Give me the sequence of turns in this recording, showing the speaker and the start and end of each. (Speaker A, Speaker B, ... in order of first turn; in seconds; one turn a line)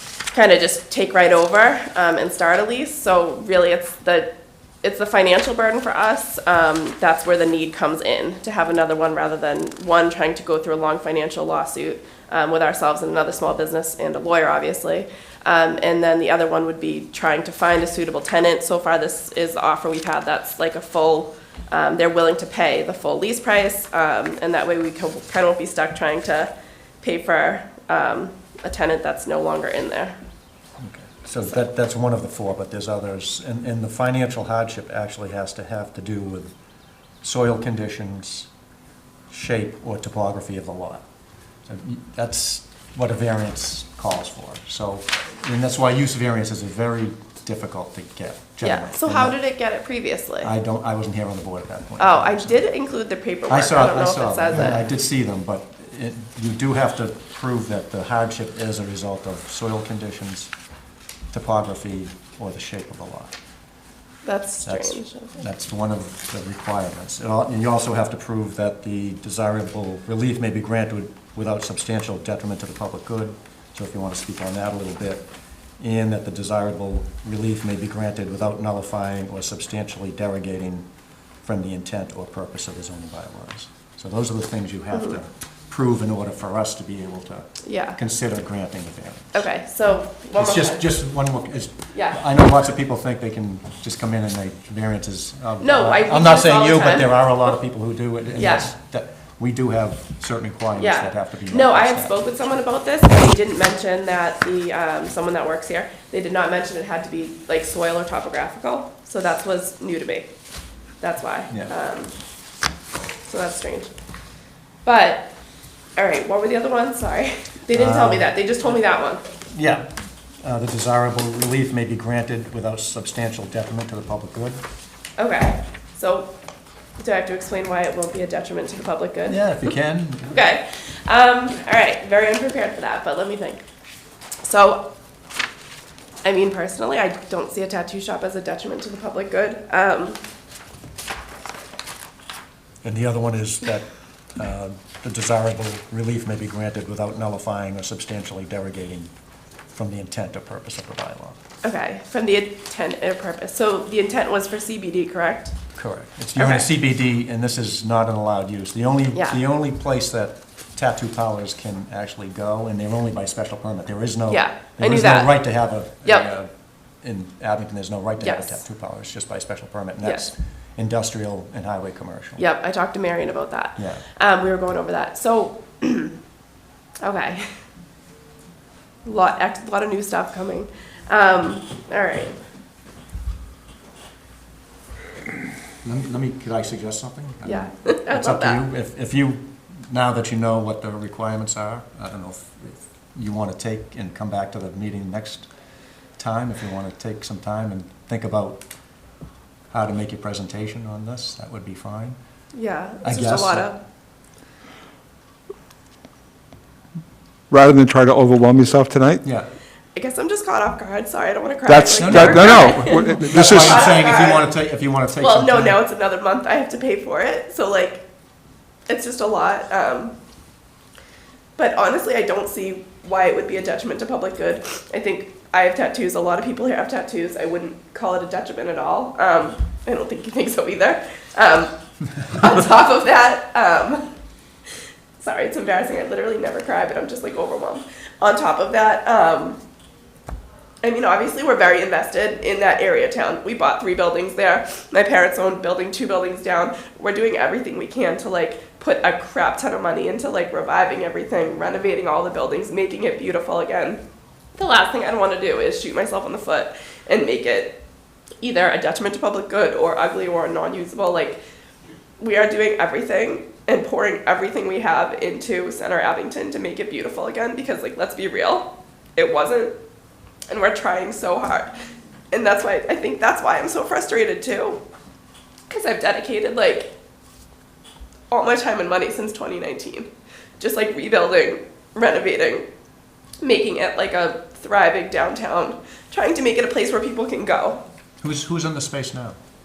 Speaker A: 0.3-30.2
Speaker B: 30.8-36.5
Speaker B: 37.2-38.5
Speaker B: 39.3-41.0
Speaker B: 41.6-49.4
Speaker A: 48.6-50.5
Speaker B: 50.4-52.7
Speaker A: 52.0-54.8
Speaker B: 53.5-60.5
Speaker B: 61.3-63.3
Speaker A: 64.2-65.4
Speaker B: 64.6-75.3
Speaker B: 75.8-80.8
Speaker B: 81.4-89.3
Speaker A: 84.9-85.2
Speaker A: 87.6-88.0
Speaker A: 89.3-90.9
Speaker B: 90.3-102.1
Speaker A: 91.9-92.2
Speaker A: 95.6-97.6
Speaker A: 98.3-98.7
Speaker A: 100.8-110.3
Speaker A: 111.0-112.1
Speaker A: 113.2-113.9
Speaker A: 114.8-115.3
Speaker A: 116.0-119.2
Speaker B: 117.7-118.3
Speaker B: 119.5-119.9
Speaker B: 120.4-124.6
Speaker A: 125.2-126.3
Speaker A: 127.0-129.7
Speaker B: 129.3-130.4
Speaker A: 130.3-133.6
Speaker A: 134.4-134.9
Speaker A: 136.2-140.2
Speaker B: 142.8-149.1
Speaker B: 149.7-151.4
Speaker A: 151.6-155.6
Speaker B: 155.7-166.5
Speaker A: 156.3-156.7
Speaker A: 159.1-159.4
Speaker A: 164.3-165.4
Speaker A: 166.0-166.3
Speaker B: 167.0-172.4
Speaker A: 168.2-168.6
Speaker A: 170.0-170.3
Speaker A: 172.4-176.2
Speaker B: 173.8-174.0
Speaker A: 177.0-177.5
Speaker A: 179.0-182.3
Speaker B: 185.8-195.5
Speaker A: 187.4-188.6
Speaker B: 196.2-198.6
Speaker B: 199.7-202.2
Speaker A: 202.5-203.8
Speaker B: 203.0-203.7
Speaker C: 207.5-209.2
Speaker B: 209.2-209.5
Speaker A: 209.9-214.5
Speaker C: 211.7-214.0
Speaker B: 211.9-215.8
Speaker A: 215.2-218.0
Speaker A: 218.9-220.2
Speaker A: 221.6-234.1
Speaker A: 235.2-239.6
Speaker A: 240.8-254.0
Speaker A: 254.6-257.8
Speaker A: 258.4-261.4
Speaker A: 262.2-269.7
Speaker A: 270.5-271.7
Speaker A: 272.3-274.8
Speaker A: 275.7-276.9
Speaker A: 278.3-282.6
Speaker A: 283.4-287.8
Speaker B: 288.2-289.4